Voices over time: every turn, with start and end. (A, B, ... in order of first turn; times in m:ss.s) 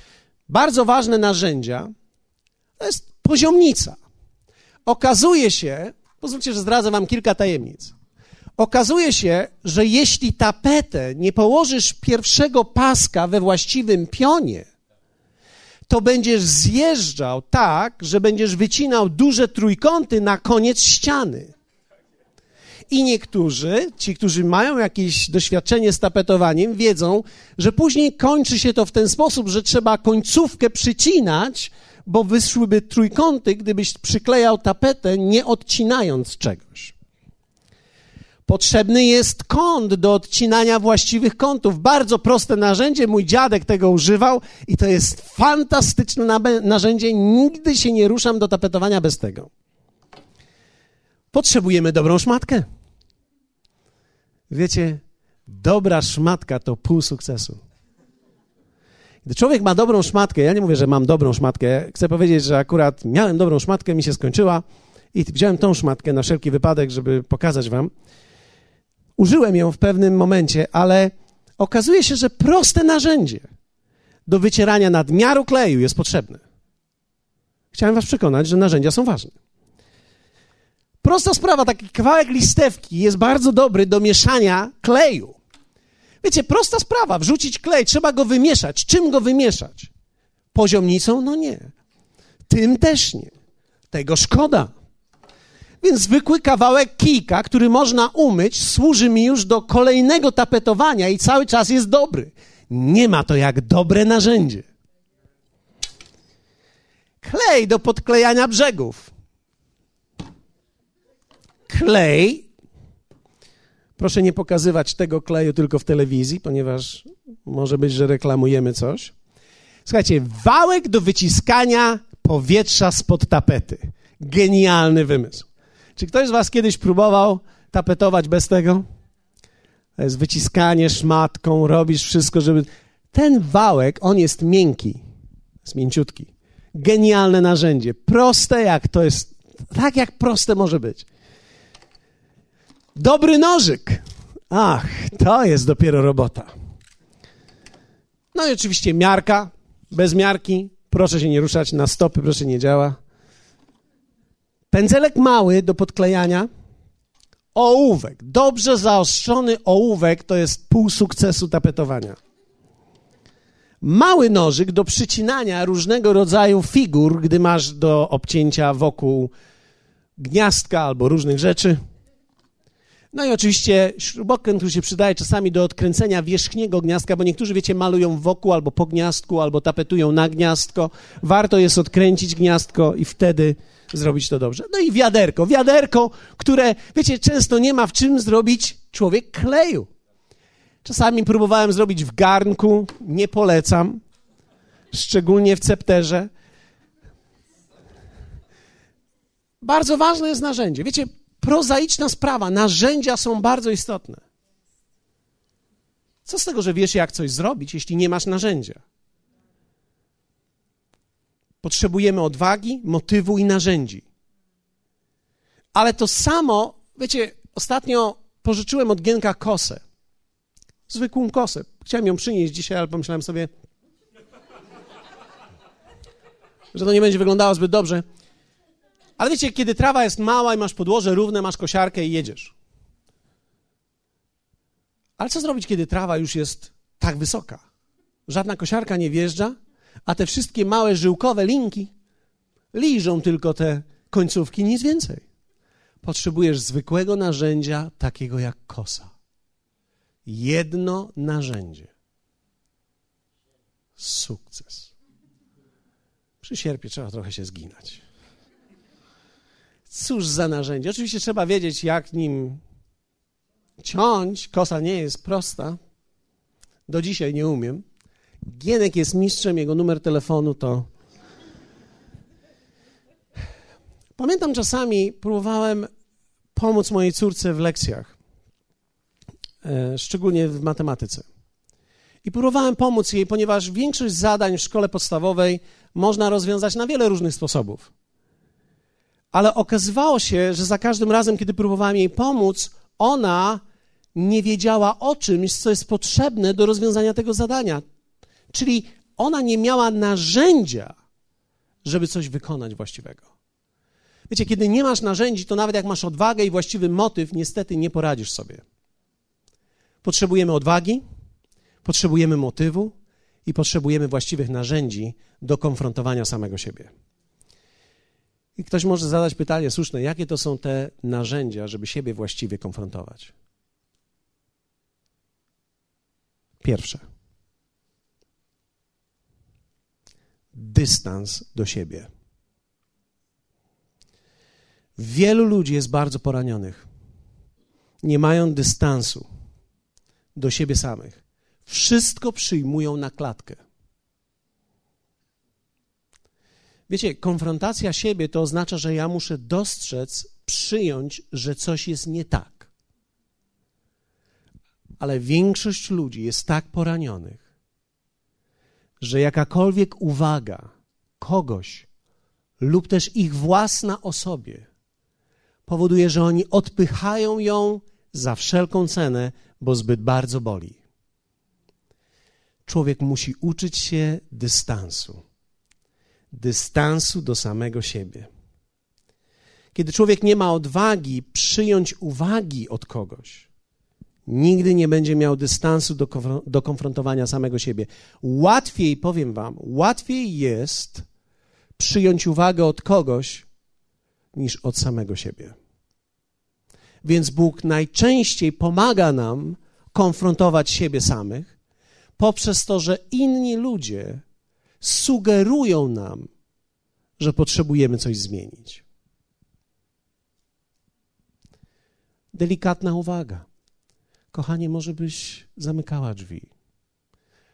0:00.5-0:01.9 A
0:02.8-0:04.0 A
0:04.8-0:07.9 A
0:08.6-0:14.7 A
0:15.9-0:21.5 A
0:22.9-0:36.9 A
0:38.4-0:49.5 A
0:51.3-0:52.7 A
0:54.5-0:57.6 A
0:59.2-1:07.9 A
1:09.2-1:13.5 A
1:14.3-1:16.4 A
1:17.7-1:19.3 A
1:21.0-1:25.4 A
1:26.2-1:29.9 A
1:30.5-1:31.7 A
1:32.5-1:33.3 A
1:33.9-1:34.7 A
1:35.8-1:44.7 A
1:47.2-1:49.1 A
1:51.7-1:52.5 A
1:54.0-1:59.1 A
1:59.8-2:08.8 A
2:10.0-2:15.0 A
2:15.6-2:21.1 A
2:22.9-2:26.5 A
2:28.3-2:33.0 A
2:34.7-2:36.5 A
2:37.5-2:42.2 A
2:43.8-2:49.3 A
2:50.2-2:51.8 A
2:53.1-3:09.9 A
3:10.8-3:14.0 A
3:14.9-3:16.3 A
3:19.6-3:24.2 A
3:26.2-3:28.8 A
3:31.6-3:34.0 A
3:35.7-3:39.8 A
3:40.9-3:43.5 A
3:46.7-3:48.0 A
3:49.2-3:52.5 A
3:55.2-3:57.6 A
3:58.3-4:01.9 A
4:02.7-4:05.2 A
4:06.0-4:09.1 A
4:10.2-4:11.9 A
4:14.0-4:14.9 A
4:16.4-4:18.0 A
4:19.9-4:22.6 A
4:23.8-4:25.8 A
4:26.9-4:27.8 A
4:28.4-4:30.9 A
4:34.2-4:35.9 A
4:36.5-4:38.1 A
4:39.6-4:41.2 A
4:42.2-4:47.9 A
4:49.3-4:53.6 A
4:54.1-4:57.8 A
4:58.5-5:01.0 A
5:01.8-5:03.3 A
5:04.3-5:08.6 A
5:10.0-5:11.0 A
5:11.8-5:12.9 A
5:13.4-5:16.9 A
5:18.6-5:23.3 A
5:26.6-5:27.0 A
5:30.5-5:32.1 A
5:35.0-5:36.8 A
5:38.0-5:39.2 A
5:40.4-5:43.6 A
5:46.9-5:52.7 A
5:55.0-5:57.4 A
5:59.0-6:00.7 A
6:01.2-6:01.9 A
6:02.6-6:04.7 A
6:05.6-6:10.8 A
6:12.6-6:15.2 A
6:16.3-6:18.3 A
6:19.7-6:23.5 A
6:24.2-6:31.0 A
6:31.8-6:33.5 A
6:34.3-6:35.6 A
6:37.0-6:41.5 A
6:42.2-6:44.2 A
6:44.8-6:46.3 A
6:47.2-6:48.8 A
6:52.3-6:53.4 A
6:54.3-6:56.5 A